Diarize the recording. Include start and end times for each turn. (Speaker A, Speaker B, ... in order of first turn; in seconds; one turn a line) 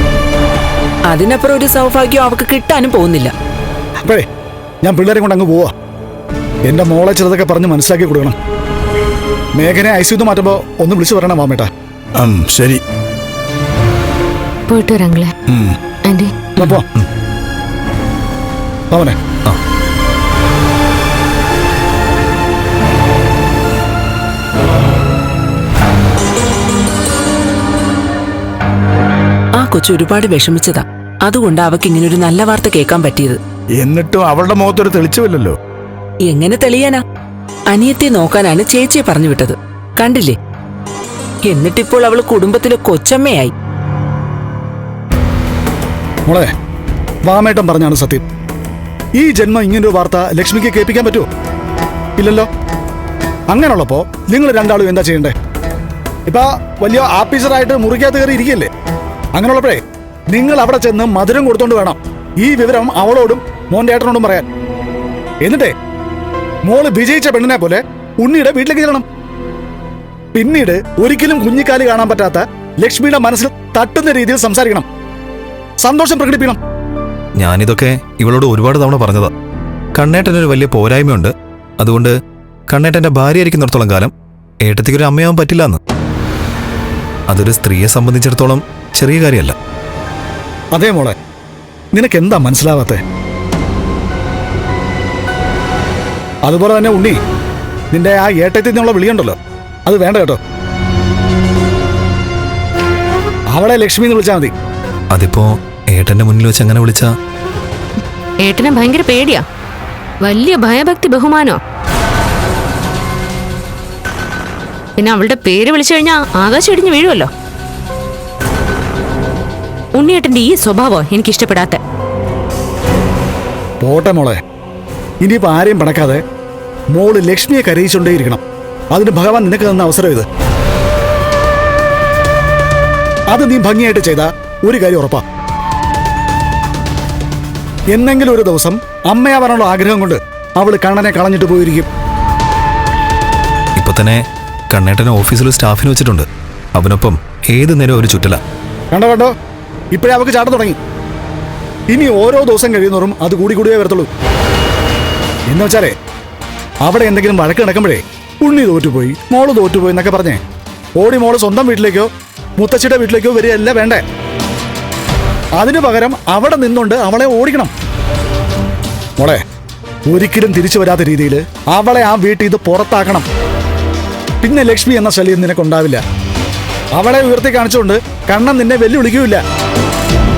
Speaker A: 1.1-3.3
Speaker B: 4.8-5.7
Speaker B: 6.7-8.3
Speaker B: 9.6-11.7
Speaker C: 12.2-12.8
Speaker D: 14.7-15.3
Speaker C: 15.5-15.8
Speaker D: 16.1-16.5
Speaker B: 16.6-16.9
Speaker B: 18.9-19.1
Speaker A: 29.6-33.4
Speaker C: 33.8-35.5
Speaker A: 36.2-37.0
Speaker A: 37.7-40.4
Speaker A: 41.4-43.5
Speaker B: 47.2-48.2
Speaker B: 49.2-51.2
Speaker B: 52.2-52.5
Speaker B: 53.5-55.3
Speaker B: 56.3-58.7
Speaker B: 59.3-64.4
Speaker B: 65.4-65.7
Speaker B: 66.6-69.0
Speaker B: 70.3-74.8
Speaker B: 75.8-76.6
Speaker E: 77.4-79.3
Speaker E: 80.0-82.1
Speaker E: 82.7-84.1
Speaker E: 84.6-85.8
Speaker E: 87.3-89.5
Speaker B: 90.7-91.2
Speaker B: 91.9-93.0
Speaker B: 96.4-97.2
Speaker B: 97.9-100.4
Speaker B: 103.5-104.5
Speaker E: 105.1-107.1
Speaker D: 108.4-109.4
Speaker D: 110.2-111.6
Speaker D: 115.0-117.3
Speaker D: 119.9-121.8
Speaker B: 123.8-124.4
Speaker B: 125.2-126.2
Speaker B: 126.9-128.4
Speaker B: 128.9-130.2
Speaker B: 133.3-135.2
Speaker B: 137.9-141.9
Speaker E: 143.8-144.2
Speaker E: 144.7-148.4
Speaker B: 148.9-149.3
Speaker B: 149.9-150.8
Speaker B: 151.9-154.1
Speaker B: 155.5-155.9
Speaker B: 156.8-160.4
Speaker B: 161.0-164.0
Speaker B: 165.6-167.7
Speaker B: 170.1-173.2
Speaker B: 174.4-176.0
Speaker B: 176.9-179.4